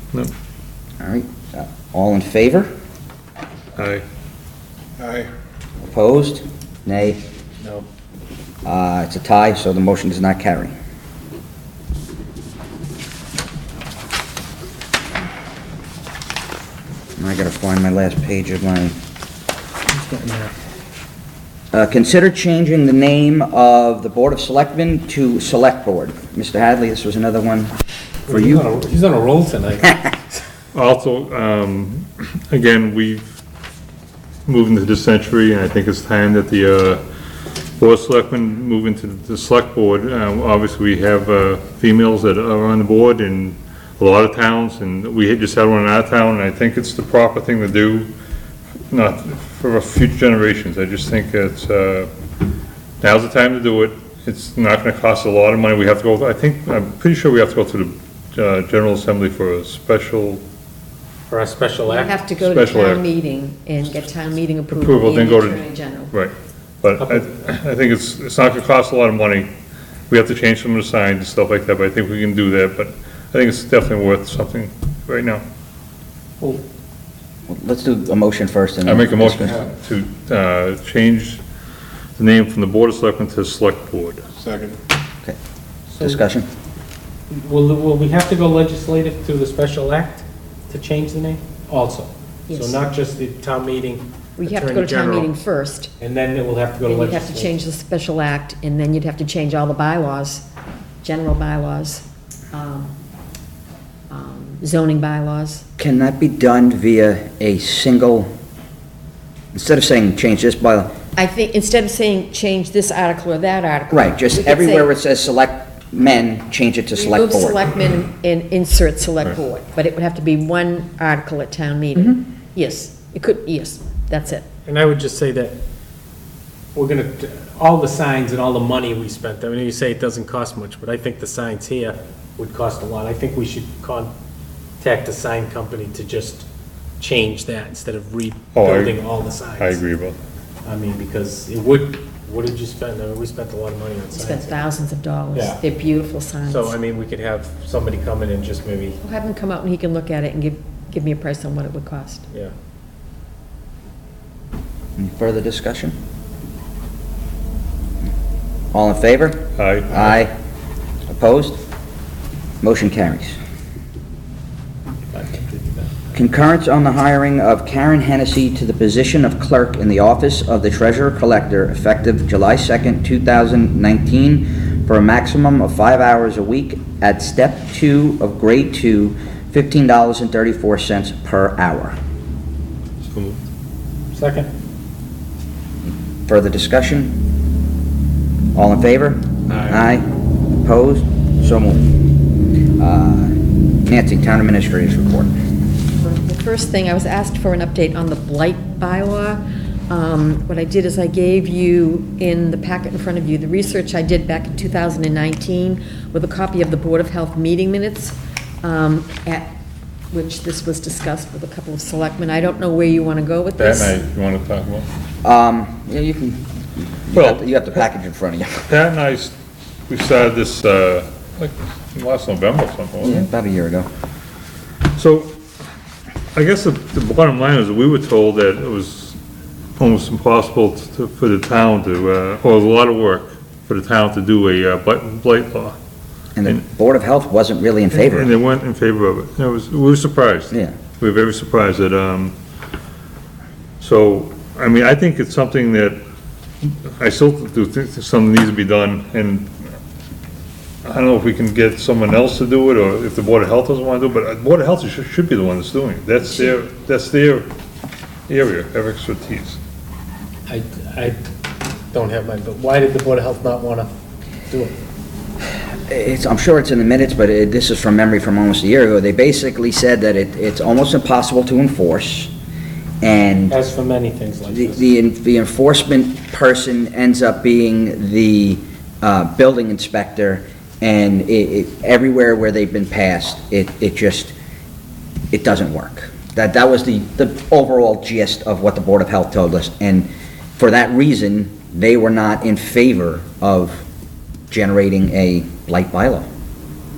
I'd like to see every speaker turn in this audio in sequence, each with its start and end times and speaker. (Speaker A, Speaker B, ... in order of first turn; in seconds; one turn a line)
Speaker A: 1.0-2.7
Speaker B: 3.8-4.0
Speaker A: 5.8-7.2
Speaker A: 8.6-10.7
Speaker A: 17.2-18.9
Speaker C: 19.9-20.5
Speaker A: 21.7-27.7
Speaker C: 28.3-30.4
Speaker A: 28.3-28.6
Speaker B: 30.7-33.2
Speaker B: 34.5-37.0
Speaker B: 37.8-48.1
Speaker B: 48.9-52.1
Speaker B: 53.0-60.4
Speaker C: 61.3-62.1
Speaker D: 61.9-66.1
Speaker B: 62.4-63.0
Speaker B: 64.7-69.5
Speaker C: 67.0-67.2
Speaker B: 70.1-75.4
Speaker A: 77.5-79.6
Speaker B: 78.8-81.4
Speaker B: 82.2-84.2
Speaker C: 85.9-86.2
Speaker A: 86.0-86.5
Speaker C: 87.3-95.3
Speaker D: 92.5-92.8
Speaker D: 94.4-95.9
Speaker C: 96.0-97.5
Speaker D: 96.8-100.4
Speaker D: 101.0-103.0
Speaker D: 104.1-105.6
Speaker A: 105.8-108.3
Speaker A: 109.5-110.9
Speaker D: 111.1-114.9
Speaker A: 113.9-117.6
Speaker D: 116.9-124.5
Speaker C: 124.7-125.6
Speaker C: 126.7-134.1
Speaker C: 134.8-136.4
Speaker C: 137.0-139.8
Speaker B: 138.5-139.0
Speaker B: 139.6-140.2
Speaker C: 140.6-144.6
Speaker D: 144.1-146.8
Speaker C: 145.3-145.6
Speaker C: 146.4-149.0
Speaker D: 149.0-152.2
Speaker A: 155.0-155.9
Speaker A: 158.7-160.3
Speaker B: 159.6-160.1
Speaker A: 161.1-161.6
Speaker A: 162.6-163.3
Speaker C: 165.1-166.0
Speaker A: 166.1-181.9
Speaker B: 183.0-183.4
Speaker C: 184.1-184.5
Speaker A: 185.8-187.1
Speaker A: 188.5-190.1
Speaker B: 189.5-189.8
Speaker A: 190.6-191.8
Speaker A: 192.8-193.3
Speaker A: 193.8-195.3
Speaker D: 196.0-209.5
Speaker D: 210.1-214.0
Speaker B: 213.6-214.9
Speaker A: 215.2-218.7
Speaker B: 217.1-217.5
Speaker B: 218.7-219.3
Speaker B: 219.9-223.3
Speaker A: 223.0-223.9
Speaker B: 224.9-225.3
Speaker B: 226.3-229.2
Speaker B: 229.8-235.8
Speaker A: 236.3-238.3
Speaker B: 237.9-242.3
Speaker B: 243.8-246.0
Speaker B: 246.6-249.7
Speaker B: 250.8-257.5
Speaker B: 258.3-259.6
Speaker C: 260.5-261.2
Speaker C: 261.9-263.9
Speaker C: 264.5-264.8
Speaker A: 265.9-272.3
Speaker A: 273.0-273.6
Speaker C: 273.5-274.8
Speaker A: 274.5-284.3
Speaker A: 285.3-293.8
Speaker A: 294.5-296.3